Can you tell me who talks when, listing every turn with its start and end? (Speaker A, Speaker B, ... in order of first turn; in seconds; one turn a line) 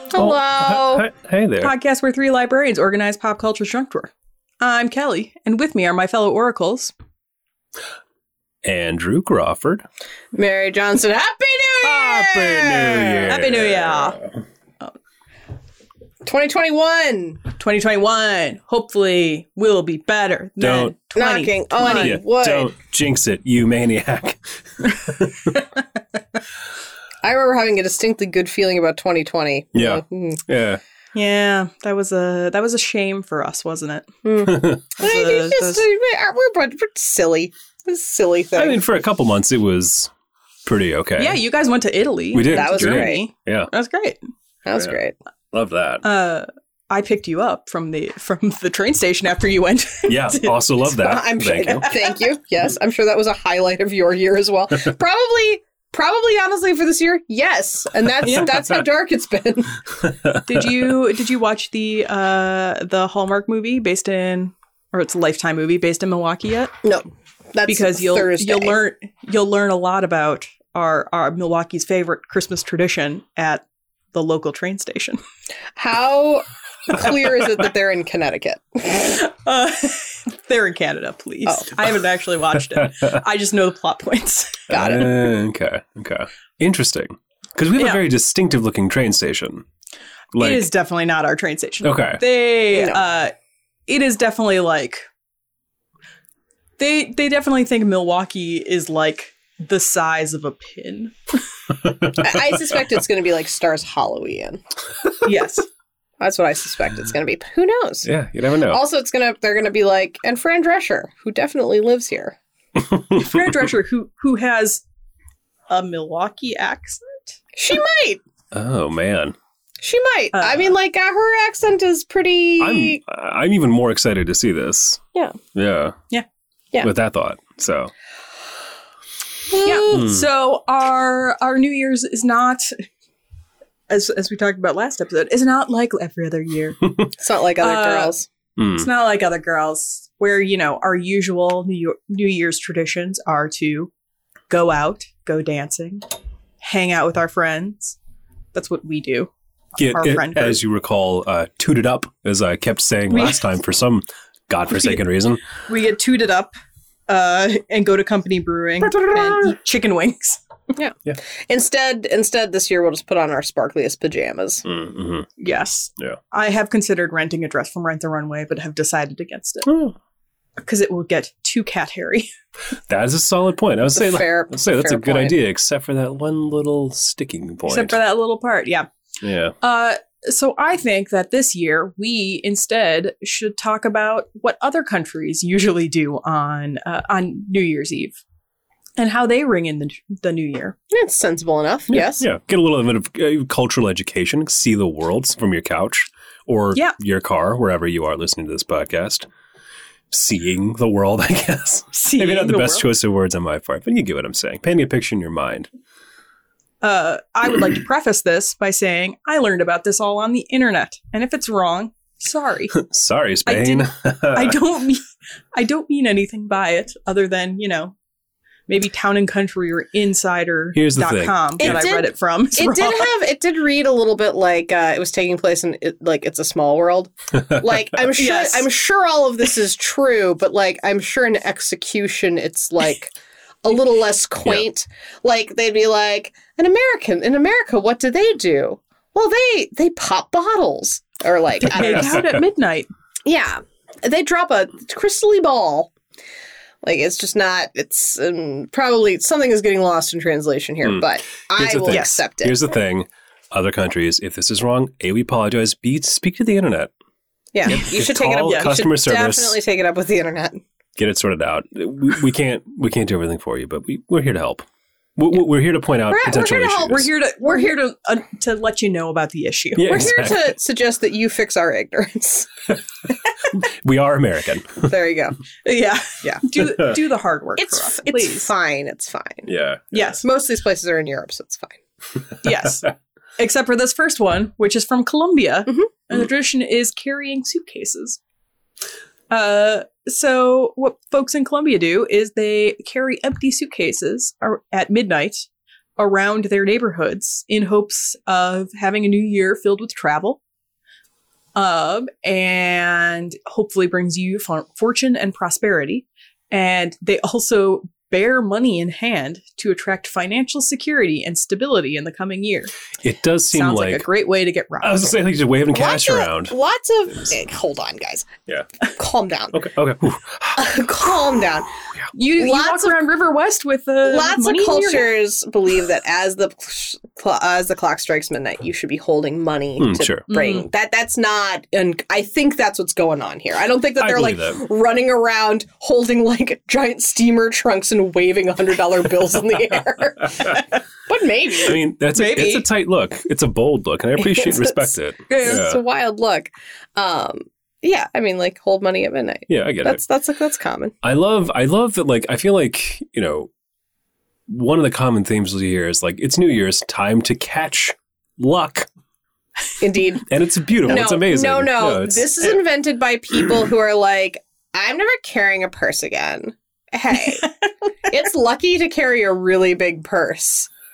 Speaker A: 0.1-1.1
Speaker B: 0.1-1.7
Speaker C: 1.6-6.9
Speaker B: 8.6-9.8
Speaker A: 10.3-13.3
Speaker B: 11.8-14.3
Speaker C: 13.3-14.2
Speaker A: 16.2-17.4
Speaker C: 17.6-22.2
Speaker B: 20.6-20.9
Speaker A: 21.1-22.7
Speaker B: 21.8-25.7
Speaker A: 27.2-30.4
Speaker B: 29.7-30.8
Speaker C: 31.1-34.1
Speaker A: 34.2-38.8
Speaker B: 34.5-34.8
Speaker C: 35.0-35.8
Speaker B: 38.5-40.1
Speaker B: 40.6-41.4
Speaker C: 41.2-44.2
Speaker B: 42.3-43.7
Speaker A: 42.5-43.2
Speaker A: 44.6-45.1
Speaker B: 45.5-46.0
Speaker C: 46.0-50.7
Speaker B: 50.0-51.9
Speaker A: 51.0-59.8
Speaker C: 58.2-58.5
Speaker B: 58.3-58.6
Speaker B: 60.0-60.8
Speaker C: 60.4-66.7
Speaker A: 66.8-68.8
Speaker C: 67.6-75.2
Speaker A: 75.8-79.2
Speaker C: 79.0-84.6
Speaker A: 81.5-81.7
Speaker A: 84.7-85.2
Speaker B: 84.7-89.6
Speaker B: 90.3-90.7
Speaker C: 90.4-93.3
Speaker B: 91.8-92.2
Speaker A: 92.7-93.0
Speaker C: 93.9-95.1
Speaker C: 96.8-101.1
Speaker B: 101.8-102.7
Speaker A: 102.2-104.6
Speaker C: 105.2-105.7
Speaker A: 106.2-108.1
Speaker B: 108.0-108.8
Speaker A: 108.7-112.4
Speaker B: 112.8-113.4
Speaker C: 113.2-114.8
Speaker C: 115.7-117.3
Speaker A: 117.5-118.2
Speaker B: 118.5-119.3
Speaker A: 119.8-123.0
Speaker C: 120.3-120.7
Speaker B: 122.6-125.0
Speaker B: 125.5-126.0
Speaker B: 126.8-127.9
Speaker A: 129.5-130.1
Speaker C: 129.6-132.8
Speaker B: 129.9-130.2
Speaker C: 133.9-136.9
Speaker A: 137.2-138.3
Speaker C: 137.6-138.1
Speaker B: 138.6-138.9
Speaker C: 138.7-143.9
Speaker C: 144.5-146.0
Speaker C: 146.6-147.9
Speaker C: 148.5-150.6
Speaker B: 149.8-155.4
Speaker C: 153.1-153.4
Speaker C: 154.7-155.0
Speaker C: 155.7-156.5
Speaker C: 157.1-160.4
Speaker B: 158.8-159.6
Speaker A: 161.4-164.6
Speaker B: 164.7-165.3
Speaker C: 165.4-169.7
Speaker B: 169.6-169.9
Speaker C: 170.6-172.3
Speaker B: 172.9-178.0
Speaker A: 173.9-175.3
Speaker C: 177.7-178.9
Speaker B: 179.2-179.5
Speaker C: 179.6-188.2
Speaker C: 189.0-190.8
Speaker A: 190.9-192.2
Speaker B: 191.9-199.3
Speaker B: 200.1-205.7
Speaker C: 201.9-202.9
Speaker C: 206.8-212.8
Speaker B: 212.7-214.6
Speaker C: 213.4-215.0
Speaker C: 215.5-217.9
Speaker C: 218.7-223.1
Speaker B: 220.7-221.8
Speaker A: 221.6-233.1
Speaker C: 228.2-228.7
Speaker A: 233.6-242.2
Speaker C: 241.7-242.9
Speaker B: 241.9-242.4
Speaker A: 243.2-245.9
Speaker A: 246.8-252.6
Speaker B: 251.6-256.9
Speaker C: 251.9-252.2
Speaker A: 257.5-260.6
Speaker B: 257.6-259.6
Speaker C: 257.7-258.8
Speaker B: 261.0-267.1
Speaker A: 266.1-266.9
Speaker C: 266.3-270.0
Speaker A: 267.4-267.7
Speaker B: 269.8-270.5
Speaker A: 269.8-272.5
Speaker B: 273.5-274.9
Speaker A: 274.8-275.4
Speaker C: 275.6-278.5
Speaker A: 277.6-279.5
Speaker B: 279.4-280.2
Speaker C: 279.9-280.2
Speaker A: 280.2-281.8
Speaker C: 282.4-288.2
Speaker C: 289.3-295.5
Speaker C: 296.0-300.4
Speaker C: 301.6-312.7
Speaker B: 313.0-314.0
Speaker C: 313.5-315.0
Speaker B: 314.8-316.5
Speaker A: 315.7-318.3
Speaker A: 318.9-319.6
Speaker B: 319.5-320.6
Speaker A: 320.6-321.7
Speaker C: 322.1-325.1
Speaker A: 322.3-323.0
Speaker A: 324.0-341.8
Speaker B: 329.8-330.2
Speaker C: 330.3-330.6
Speaker B: 334.0-334.6
Speaker B: 341.6-345.8
Speaker C: 342.1-342.6
Speaker A: 344.4-344.7
Speaker A: 345.3-350.9
Speaker B: 349.5-350.0
Speaker B: 351.0-353.5
Speaker B: 354.5-358.9
Speaker A: 359.8-360.2
Speaker B: 360.2-362.5
Speaker A: 360.8-367.5
Speaker A: 368.0-370.7